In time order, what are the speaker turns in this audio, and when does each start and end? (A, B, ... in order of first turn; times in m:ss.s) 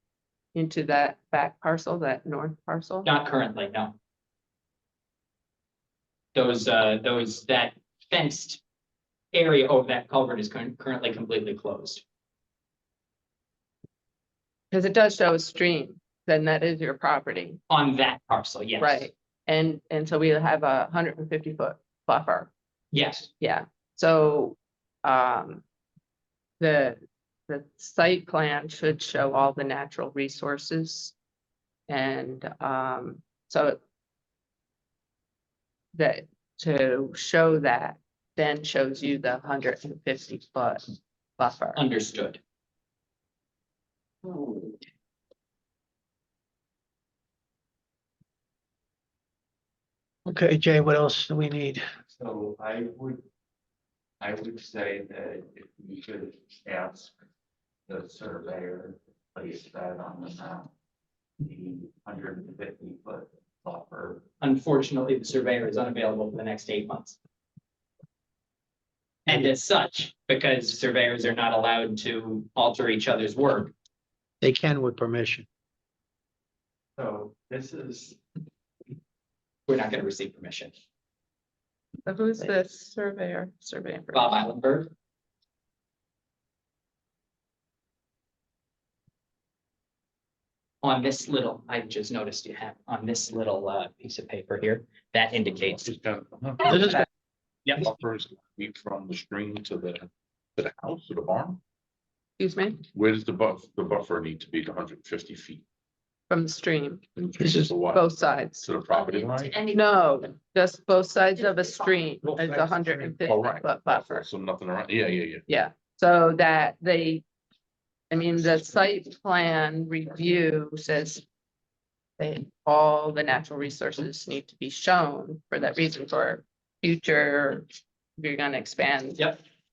0:00.5-0:03.1 A
0:03.0-0:04.0 B
0:06.4-0:08.6 B
0:09.3-0:12.0 B
0:14.7-0:17.6 A
0:17.7-0:19.1 B
0:18.8-0:22.5 A
0:22.9-0:23.3 B
0:23.4-0:25.6 A
0:26.6-0:31.2 A
0:31.9-0:33.8 A
0:36.0-0:41.8 A
0:41.8-0:42.4 B
0:50.3-0:51.8 C
0:52.1-0:53.2 D
0:54.2-0:57.1 D
0:57.9-1:00.7 D
1:01.4-1:04.2 D
1:04.4-1:07.2 B
1:09.3-1:13.7 B
1:14.4-1:15.5 C
1:17.0-1:18.2 D
1:19.7-1:20.7 B
1:22.1-1:24.4 A
1:24.1-1:24.9 B
1:30.8-1:35.9 B
1:35.7-1:37.0 E
1:36.6-1:37.1 C
1:37.7-1:41.6 E
1:42.4-1:42.8 A
1:42.9-1:45.6 E
1:46.3-1:48.7 A
1:47.3-1:48.1 E
1:47.4-1:47.7 C
1:48.6-1:49.6 E
1:49.7-1:54.3 A
1:52.2-1:53.1 C
1:53.2-1:55.4 E
1:55.5-1:57.2 A
1:58.1-2:01.2 A
2:02.2-2:07.7 A
2:08.2-2:09.2 A